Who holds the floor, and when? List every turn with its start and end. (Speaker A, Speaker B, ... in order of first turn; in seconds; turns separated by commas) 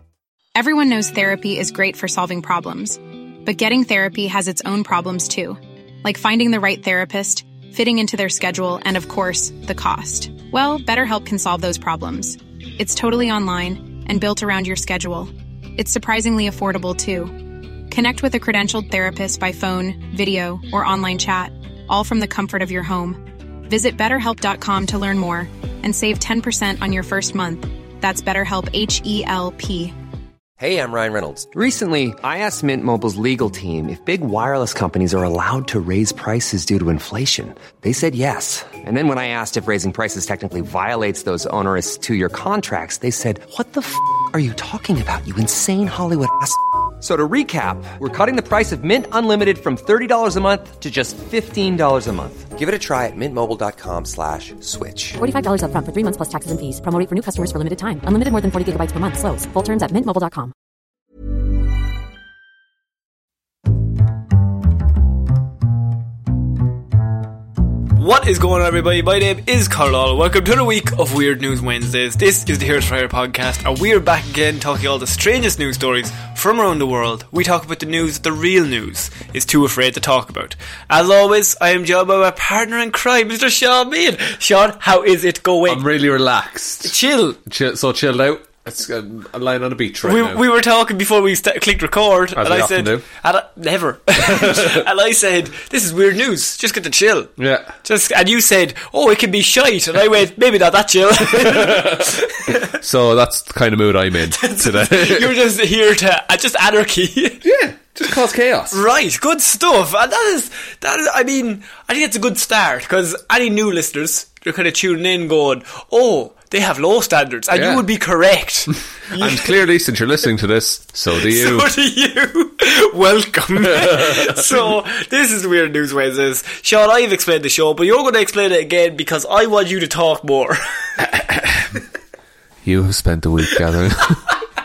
Speaker A: 0.5-17.4, Speaker A: 17.9-29.9, Speaker B: 30.6-55.2, Speaker C: 55.2-60.5, Speaker D: 68.0-85.9, Speaker E: 85.7-90.4, Speaker D: 86.8-87.4, Speaker D: 90.0-97.3, Speaker E: 92.3-93.0, Speaker E: 94.2-94.8, Speaker E: 97.4-97.7, Speaker D: 97.8-102.8, Speaker E: 101.3-105.4, Speaker D: 104.3-107.4, Speaker E: 107.4-108.8, Speaker D: 108.7-119.5, Speaker E: 117.5-117.8, Speaker E: 119.1-121.7, Speaker D: 121.2-131.1, Speaker E: 123.6-124.4, Speaker E: 131.1-131.7, Speaker E: 132.6-134.3